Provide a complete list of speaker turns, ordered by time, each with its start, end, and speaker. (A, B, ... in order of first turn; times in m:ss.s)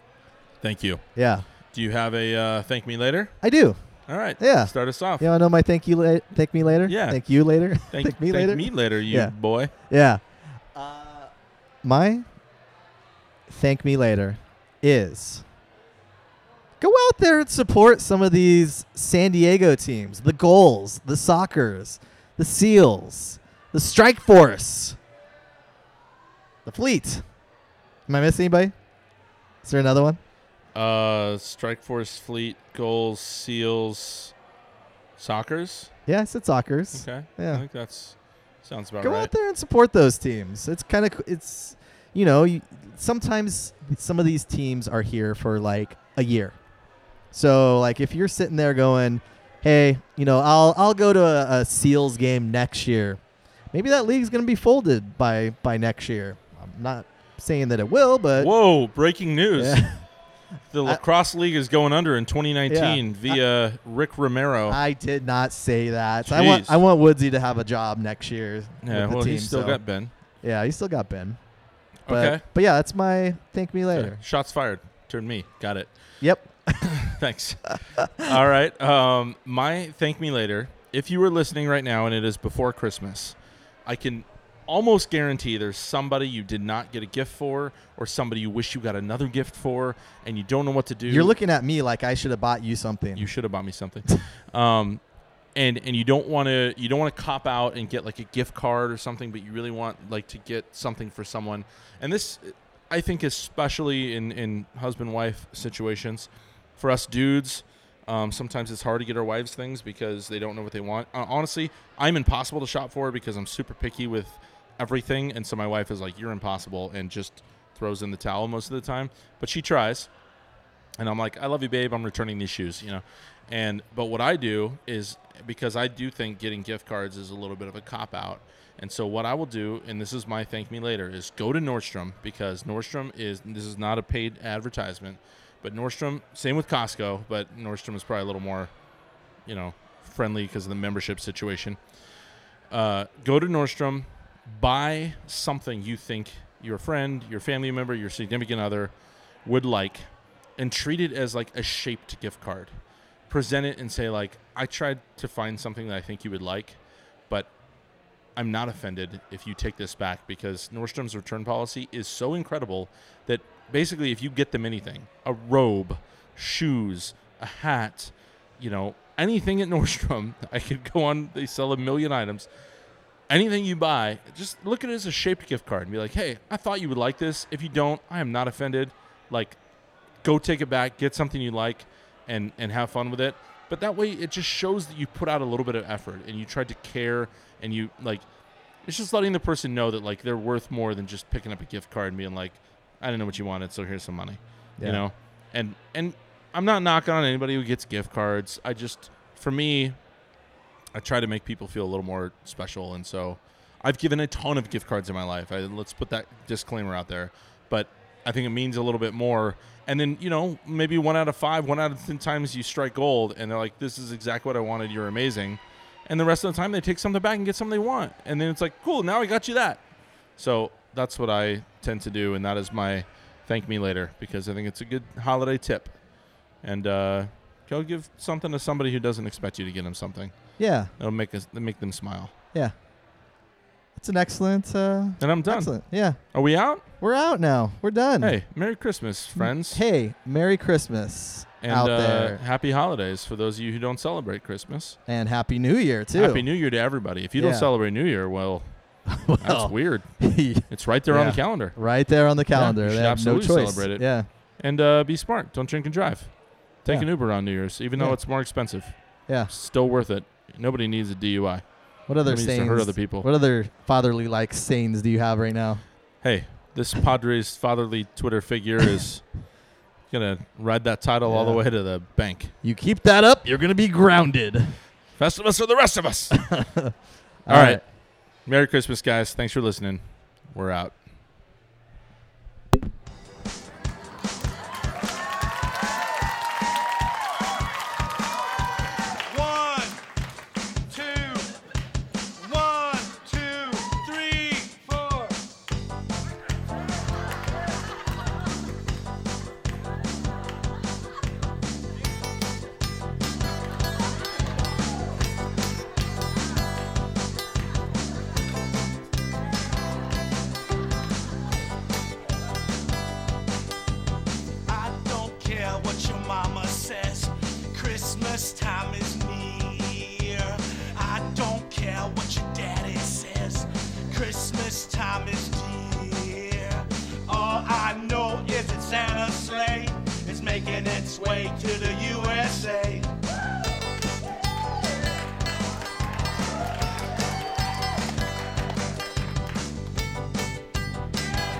0:00.6-0:01.0 A
0:01.2-0:01.4 B
0:01.7-0:03.4 A
0:03.4-0:03.8 B
0:04.1-0:05.3 A
0:04.4-0:09.3 B
0:06.9-0:07.2 A
0:07.9-0:09.7 A
0:09.9-0:10.2 B
0:10.7-0:11.3 B
0:11.8-0:12.2 B
0:13.5-0:15.4 B
0:16.8-0:25.0 B
0:26.6-0:27.2 B
0:28.1-0:28.7 B
0:29.6-0:30.2 B
0:30.7-0:34.3 A
0:35.2-0:35.9 A
0:36.1-0:37.6 B
0:36.9-0:39.3 A
0:39.0-0:46.6 B
0:47.3-0:53.2 B
0:53.7-0:58.5 B
0:58.4-0:59.9 A
0:59.6-1:00.0 B
1:00.7-1:04.8 A
1:02.7-1:03.4 B
1:04.7-1:09.8 B
1:06.2-1:06.8 A
1:08.8-1:10.1 A
1:10.4-1:11.4 B
1:12.1-1:12.4 A
1:12.1-1:14.2 B
1:13.9-1:15.9 A
1:16.2-1:16.9 B
1:16.8-1:23.4 A
1:18.0-1:18.3 B
1:23.9-1:31.3 A
1:31.1-1:33.3 B
1:33.2-1:35.0 A
1:35.5-2:00.1 A
2:01.0-2:18.7 A
2:19.5-2:21.8 A
2:22.7-2:28.9 A
2:29.4-2:30.0 A
2:30.6-2:32.7 A
2:33.3-2:37.5 A
2:38.4-2:52.5 A
2:53.3-2:59.6 A
3:00.2-3:08.2 A
3:08.8-3:20.0 A
3:20.9-3:39.8 A
3:40.4-3:46.0 A
3:46.6-3:52.3 A
3:50.6-3:50.9 B
3:54.0-3:56.2 B
3:55.2-3:56.8 A
3:57.0-3:58.4 B
3:58.2-3:59.8 A
3:59.4-4:02.4 B
4:01.6-4:05.0 A
4:05.1-4:06.4 B
4:06.1-4:08.6 A
4:07.4-4:07.7 B
4:09.1-4:14.3 B
4:09.4-4:11.8 A
4:12.5-4:14.0 A
4:14.6-4:21.6 A
4:22.1-4:25.8 B
4:22.2-4:23.3 A
4:26.2-4:29.3 A
4:30.1-4:32.5 A
4:31.2-4:31.6 B
4:32.6-4:34.8 B
4:35.2-4:36.4 A
4:36.4-4:36.9 B
4:37.4-4:37.8 B
4:37.5-4:37.8 A
4:38.4-4:40.9 A
4:49.3-4:50.0 C
4:50.9-4:51.5 C
4:52.4-4:55.4 C
5:14.7-5:33.1 C